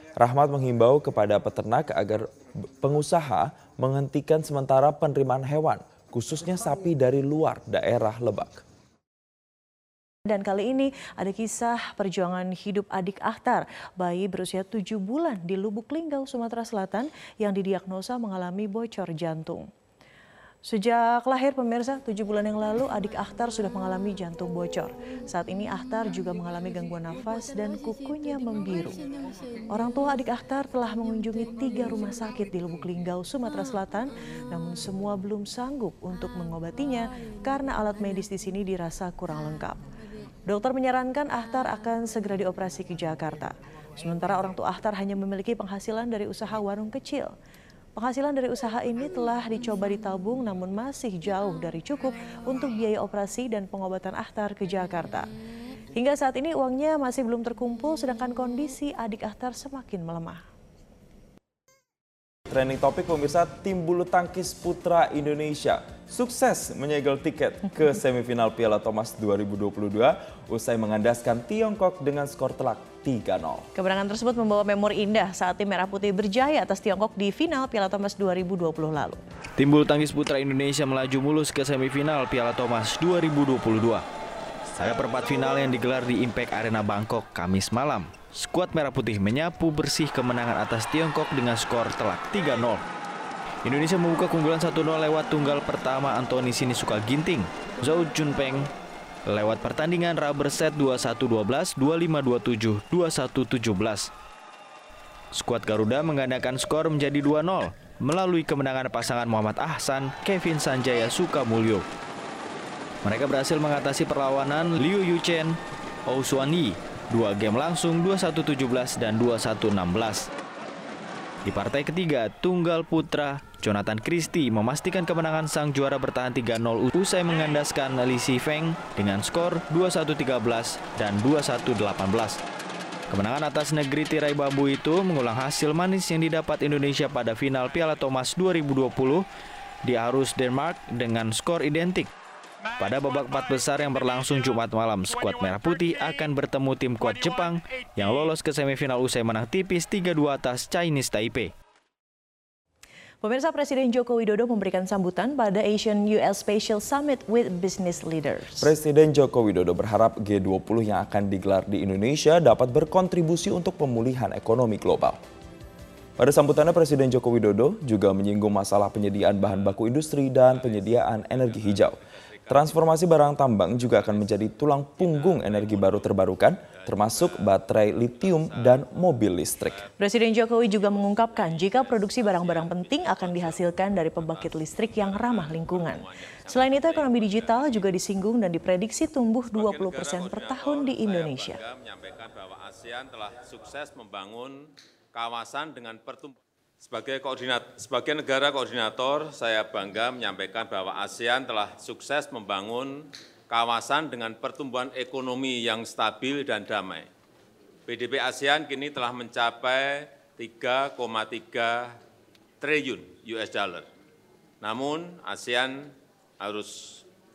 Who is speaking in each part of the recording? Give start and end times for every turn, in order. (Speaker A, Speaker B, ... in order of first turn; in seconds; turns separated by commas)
Speaker A: 0.2-2.3, Speaker A: 2.8-8.6, Speaker B: 10.3-19.7, Speaker B: 20.6-29.0, Speaker B: 29.7-39.8, Speaker B: 40.5-47.3, Speaker B: 48.0-55.2, Speaker B: 55.9-60.4, Speaker A: 62.5-73.7, Speaker B: 73.7-79.2, Speaker C: 79.6-84.0, Speaker C: 84.7-92.8, Speaker C: 93.6-98.7, Speaker C: 99.2-104.1, Speaker C: 105.3-111.8, Speaker C: 113.0-120.3, Speaker C: 121.4-132.4, Speaker C: 133.1-139.2, Speaker C: 139.8-142.1, Speaker C: 142.8-151.5, Speaker B: 153.2-158.7, Speaker A: 158.6-165.2, Speaker A: 166.2-179.8, Speaker D: 169.4-169.8, Speaker D: 170.4-173.1, Speaker D: 173.7-178.9, Speaker D: 179.6-179.9, Speaker B: 180.0-191.6, Speaker D: 180.6-187.9, Speaker D: 189.5-207.1, Speaker D: 207.9-211.9, Speaker D: 212.6-213.8, Speaker D: 214.6-217.0